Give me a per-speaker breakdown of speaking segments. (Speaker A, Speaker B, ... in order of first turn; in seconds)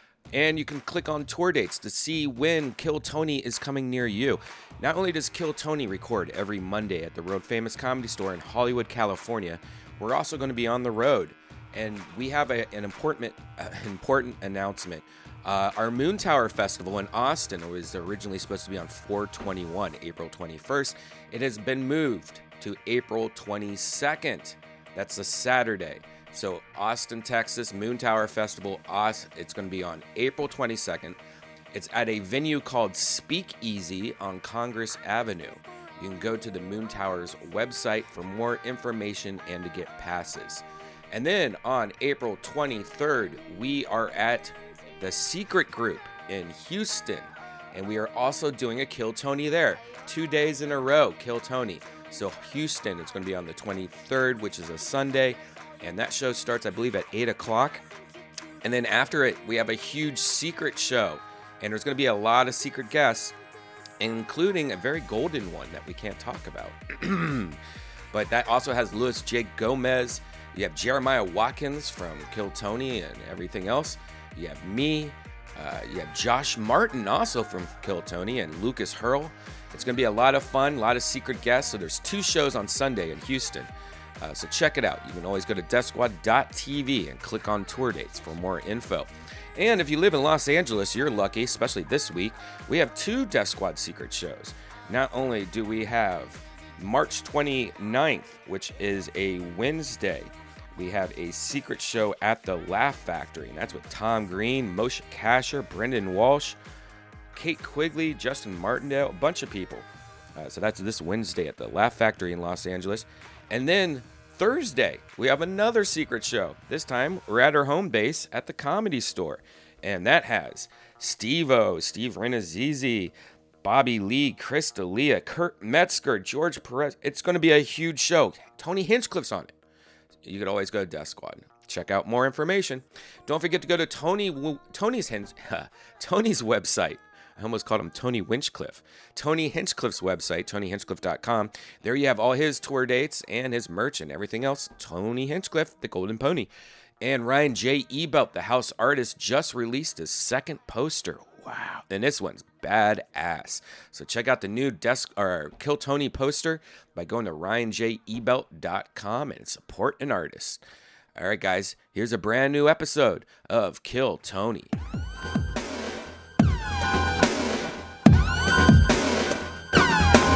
Speaker A: 0.3-31.2, 31.7-57.8, 58.6-63.3, 64.0-67.6, 68.1-83.7, 84.2-106.6, 107.3-129.5, 130.2-160.6, 161.2-164.7